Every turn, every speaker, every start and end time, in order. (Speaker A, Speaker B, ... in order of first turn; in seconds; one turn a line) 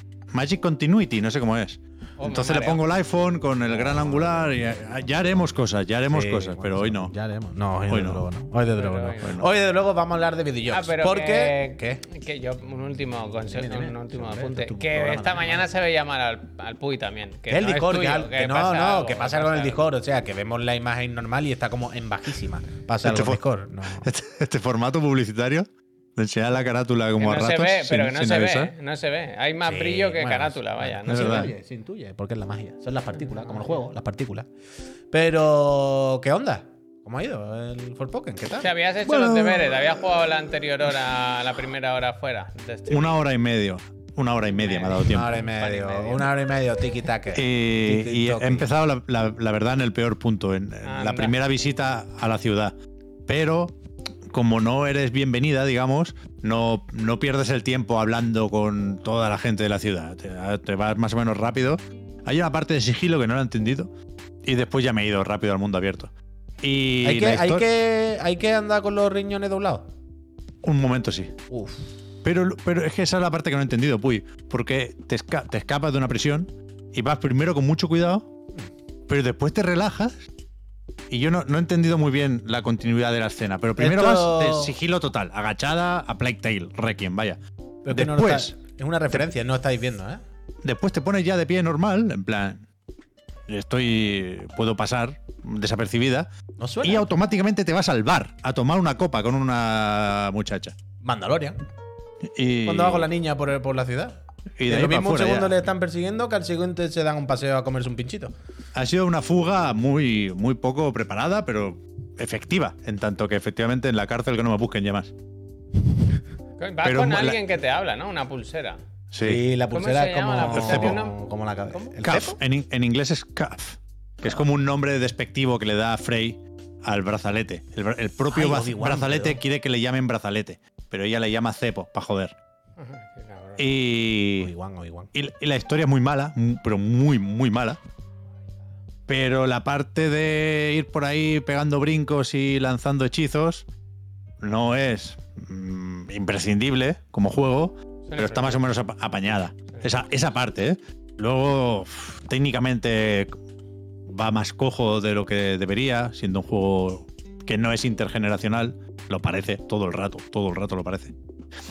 Speaker A: 0.3-7.1
Speaker B: 2.2-2.8
Speaker C: 3.9-4.1
Speaker C: 6.1-12.0
Speaker A: 7.9-8.3
Speaker B: 8.7-9.4
Speaker A: 9.2-9.5
Speaker B: 10.7-19.8
Speaker C: 13.5-15.7
Speaker C: 17.5-24.1
Speaker A: 23.0-28.7
Speaker B: 27.2-31.5
Speaker C: 29.6-34.5
Speaker A: 31.1-31.5
Speaker B: 33.3-33.8
Speaker C: 35.1-38.7
Speaker B: 38.6-43.2
Speaker A: 39.0-40.2
Speaker A: 42.9-45.3
Speaker B: 44.6-46.3
Speaker C: 45.0-48.7
Speaker A: 47.3-52.8
Speaker B: 50.8-51.4
Speaker A: 53.3-53.8
Speaker A: 54.3-63.9
Speaker A: 64.4-67.7
Speaker C: 67.0-69.9
Speaker A: 70.6-71.3
Speaker C: 71.5-71.8
Speaker A: 72.2-78.3
Speaker A: 79.1-80.2
Speaker A: 81.1-87.4
Speaker C: 83.8-84.7
Speaker C: 87.8-90.2
Speaker A: 87.9-88.5
Speaker A: 90.6-92.6
Speaker A: 93.5-96.3
Speaker C: 96.6-97.1
Speaker A: 96.8-100.8
Speaker C: 101.0-101.6
Speaker A: 102.2-103.1
Speaker C: 102.7-108.3
Speaker A: 104.6-105.6
Speaker A: 108.7-115.1
Speaker B: 116.6-118.8
Speaker A: 116.8-117.4
Speaker A: 119.1-119.4
Speaker C: 119.2-122.4
Speaker B: 119.7-121.2
Speaker A: 120.5-121.0
Speaker A: 122.0-132.3
Speaker C: 128.3-129.4
Speaker B: 132.8-133.7
Speaker A: 133.6-134.5
Speaker C: 134.4-135.1
Speaker A: 135.1-137.8
Speaker A: 139.1-143.7
Speaker A: 144.4-153.4
Speaker B: 148.1-148.6
Speaker A: 154.1-161.2